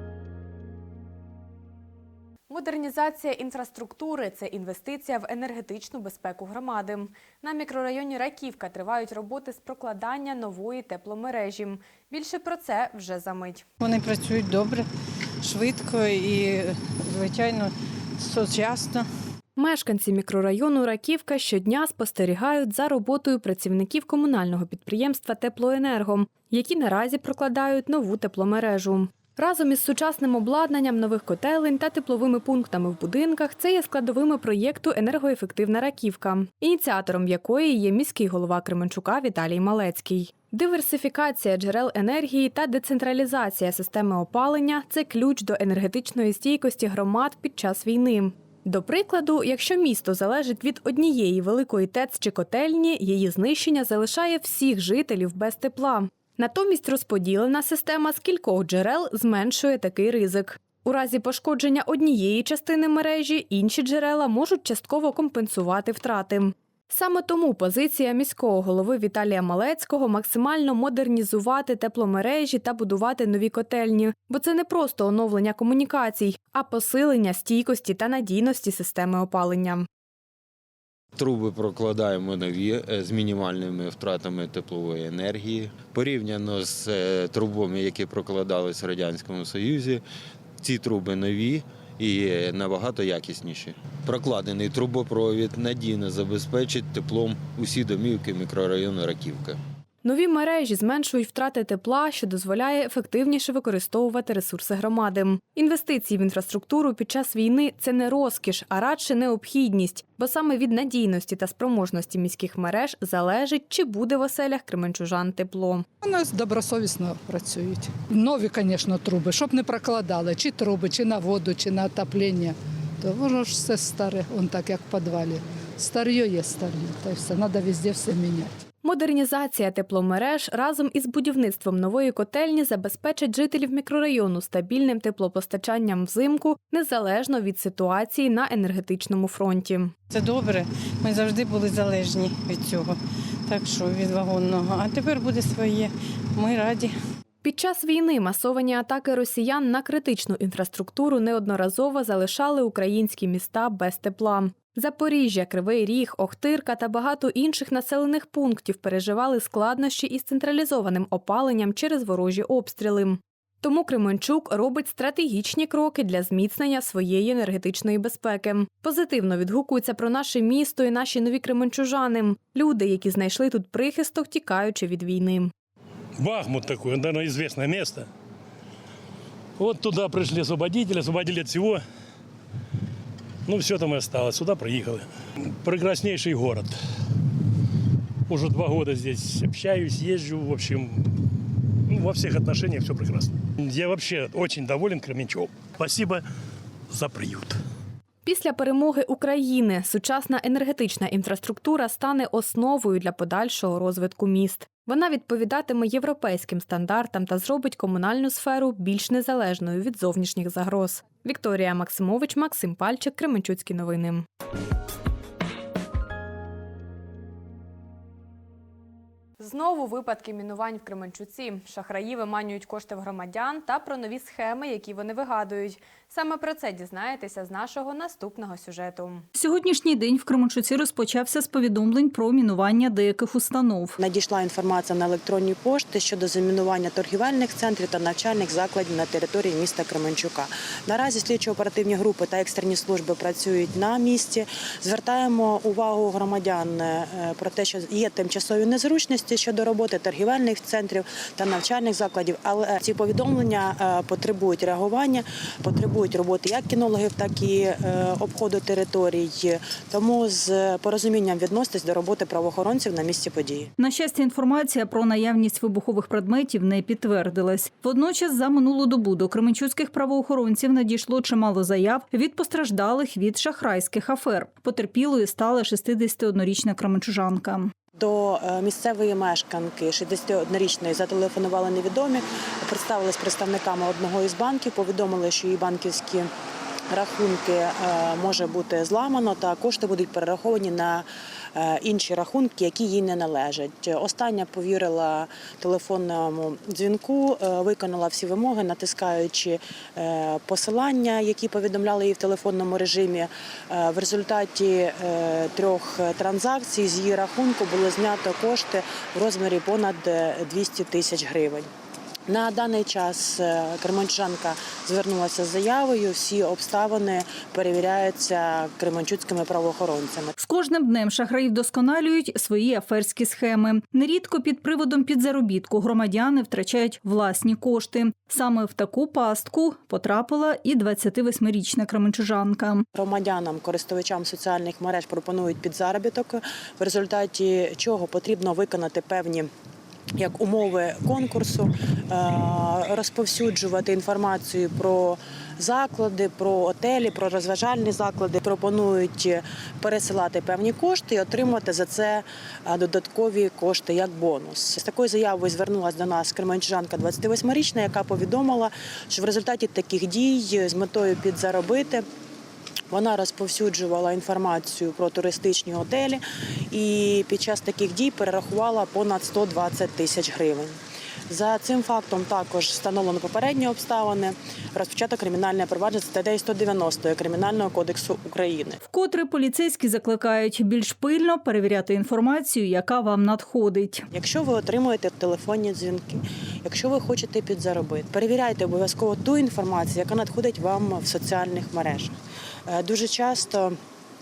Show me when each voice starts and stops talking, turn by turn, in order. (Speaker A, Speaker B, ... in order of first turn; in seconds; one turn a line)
Speaker A: 2.5-13.6
Speaker B: 13.8-14.9
Speaker B: 15.4-19.1
Speaker A: 19.6-79.8
Speaker C: 81.2-90.0
Speaker C: 90.6-99.6
Speaker A: 100.0-115.8
Speaker D: 116.0-128.5
Speaker A: 128.8-139.9
Speaker B: 140.1-146.9
Speaker A: 147.4-175.5
Speaker E: 176.2-178.1
Speaker E: 179.6-181.8
Speaker E: 183.4-186.7
Speaker E: 188.3-191.2
Speaker E: 191.9-196.2
Speaker E: 196.9-197.6
Speaker A: 198.2-214.2
Speaker A: 219.4-229.2
Speaker F: 229.3-233.9
Speaker G: 234.0-263.7
Speaker F: 263.8-277.7
Speaker G: 278.0-286.3
Speaker G: 286.9-311.7
Speaker G: 312.3-320.3
Speaker F: 320.4-332.8
Speaker G: 332.9-339.5
Speaker G: 340.2-362.0
Speaker G: 362.9-370.8
Speaker G: 371.3-378.8
Speaker F: 378.8-384.0
Speaker G: 384.1-392.1
Speaker G: 392.7-393.8